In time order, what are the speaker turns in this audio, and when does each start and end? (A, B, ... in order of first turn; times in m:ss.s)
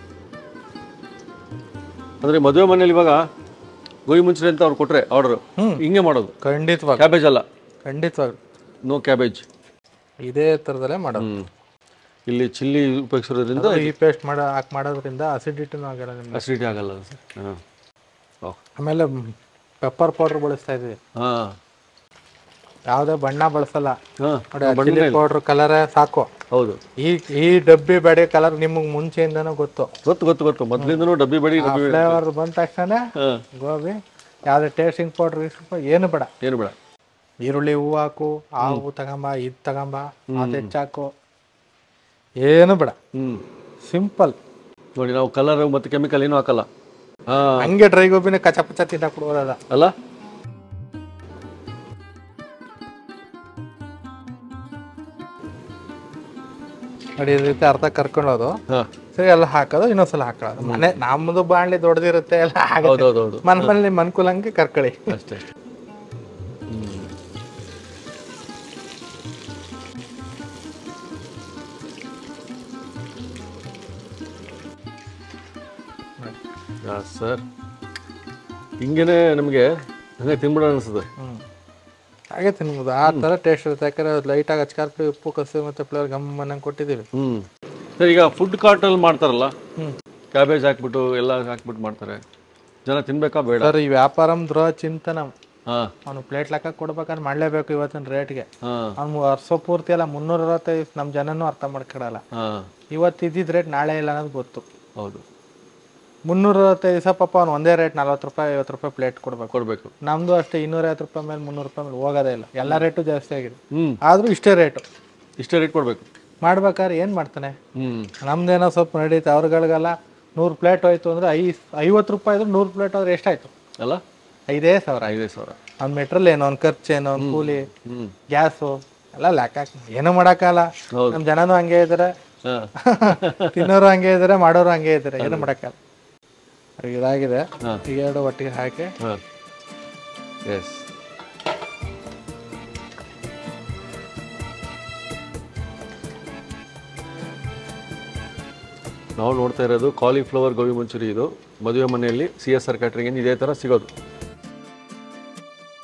0:02.2-0:03.2 A
0:04.1-0:06.3 A
0:05.6-0:05.8 B
0:06.4-0:07.0 B
0:07.0-0:07.4 A
0:07.9-0:08.4 B
0:08.9-0:09.4 A
0:10.2-0:11.3 B
0:11.2-0:11.4 A
0:12.3-0:13.9 A
0:13.6-0:16.4 B
0:16.3-0:17.6 A
0:18.8-0:21.0 B
0:21.2-0:21.5 A
0:22.9-0:24.0 B
0:24.2-0:25.2 A
0:24.5-0:26.3 B
0:26.5-0:26.8 A
0:27.0-0:29.9 B
0:30.0-0:32.2 A
0:30.8-0:31.0 B
0:31.6-0:33.0 B
0:33.2-0:33.4 A
0:33.6-0:34.0 B
0:34.5-0:36.3 B
0:36.4-0:36.8 A
0:37.4-0:41.1 B
0:40.4-0:40.7 A
0:42.4-0:43.0 B
0:43.1-0:43.4 A
0:43.9-0:44.4 B
0:45.0-0:46.7 A
0:47.3-0:47.7 A
0:47.6-0:49.6 B
0:57.2-0:58.6 B
0:59.1-1:05.1 B
1:00.6-1:01.0 A
1:02.8-1:03.8 A
1:05.1-1:05.4 A
1:06.7-1:07.1 A
1:16.8-1:17.4 A
1:18.8-1:19.6 A
1:20.2-1:21.1 A
1:22.3-1:27.1 B
1:27.1-1:27.4 A
1:28.0-1:29.5 A
1:30.3-1:32.2 A
1:32.9-1:33.8 A
1:33.6-1:35.3 B
1:36.1-1:38.5 B
1:38.6-1:38.9 A
1:39.0-1:42.2 B
1:42.3-1:42.7 A
1:42.9-1:44.6 B
1:45.0-1:45.2 A
1:46.3-1:54.8 B
1:49.5-1:49.9 A
1:53.7-1:54.0 A
1:55.4-1:56.0 A
1:56.4-1:57.6 B
1:57.8-1:58.1 A
1:58.2-2:03.5 B
2:04.5-2:05.1 B
2:05.0-2:05.6 A
2:05.8-2:07.7 B
2:07.2-2:08.1 A
2:08.3-2:12.1 B
2:10.9-2:11.2 A
2:12.4-2:13.7 A
2:12.8-2:15.8 B
2:15.2-2:15.5 A
2:16.8-2:18.9 B
2:20.5-2:20.8 A
2:29.2-2:33.9 A